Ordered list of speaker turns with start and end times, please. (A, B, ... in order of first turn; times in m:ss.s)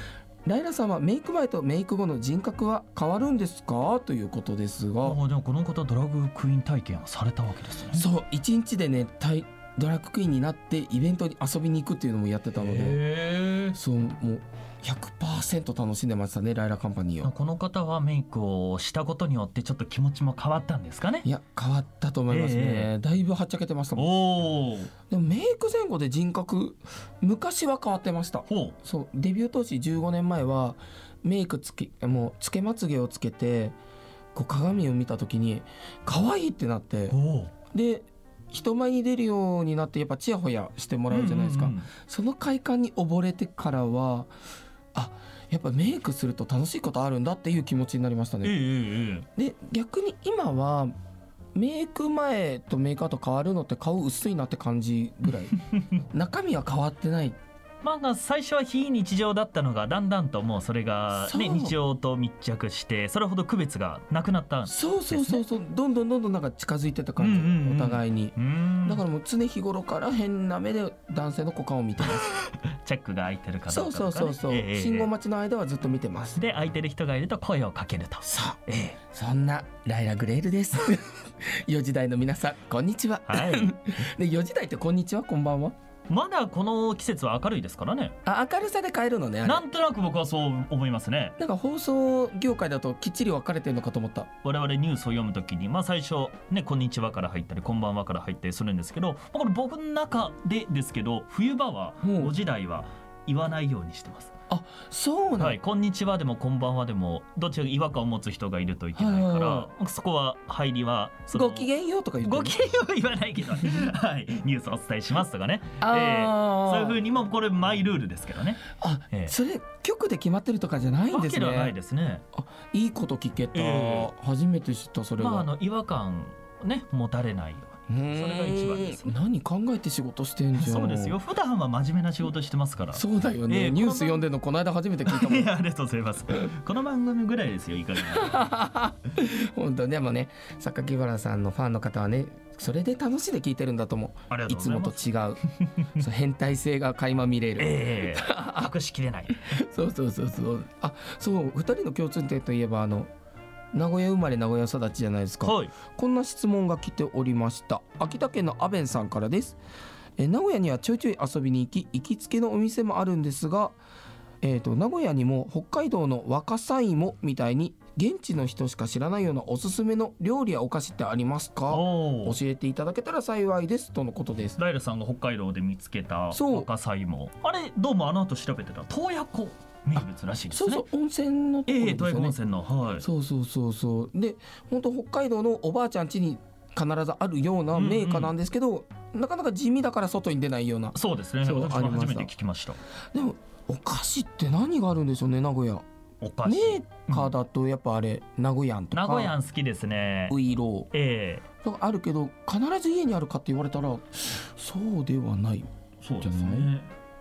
0:00.4-0:05.2 A
0:05.0-0:08.0 B
0:07.9-0:13.0 A
0:12.6-0:13.8 B
0:13.7-0:17.3 A
0:17.2-0:21.2 B
0:21.2-0:24.2 A
0:22.3-0:22.9 B
0:24.0-0:24.9 B
0:25.1-0:33.8 A
0:28.5-0:28.8 B
0:34.3-0:37.2 A
0:37.1-0:37.5 B
0:37.7-0:44.3 A
0:41.1-0:41.9 B
0:44.9-0:48.5 A
0:48.4-0:49.3 B
0:49.4-0:50.9 A
0:51.5-0:57.4 A
0:57.8-1:05.4 B
1:01.2-1:01.7 A
1:04.6-1:12.3 A
1:07.2-1:09.0 B
1:12.2-1:15.1 B
1:13.7-1:16.4 A
1:16.4-1:19.0 B
1:18.2-1:25.7 A
1:23.3-1:23.7 B
1:26.1-1:28.1 B
1:28.2-1:29.6 A
1:29.4-1:31.4 B
1:31.4-1:34.3 A
1:34.4-1:44.3 B
1:42.0-1:42.3 A
1:44.5-1:45.6 A
1:45.4-1:51.7 B
1:49.0-1:49.7 A
1:51.3-1:52.6 A
1:52.2-1:59.3 B
1:55.8-1:57.0 A
1:58.8-2:01.7 A
2:01.1-2:02.2 B
2:02.4-2:05.5 A
2:03.5-2:04.1 B
2:05.2-2:09.1 B
2:07.9-2:11.2 A
2:10.6-2:14.2 B
2:12.9-2:15.5 A
2:15.0-2:18.5 B
2:18.1-2:25.4 A
2:24.3-2:25.0 B
2:26.0-2:28.7 A
2:27.6-2:29.5 B
2:29.4-2:33.1 A
2:33.7-2:39.6 A
2:35.4-2:35.7 B
2:40.2-2:43.8 A
2:44.4-2:54.6 A
2:51.7-2:52.4 B
2:54.6-3:00.8 B
2:56.3-2:56.7 A
3:00.0-3:02.4 A
3:01.7-3:03.0 B
3:03.0-3:12.3 A
3:07.7-3:08.3 B
3:10.9-3:12.8 B
3:13.1-3:15.8 A
3:16.2-3:17.3 B
3:16.4-3:19.3 A
3:18.9-3:20.4 B
3:20.3-3:20.9 A
3:20.9-3:21.4 B
3:21.6-3:25.7 A
3:26.0-3:26.9 B
3:26.2-3:26.7 A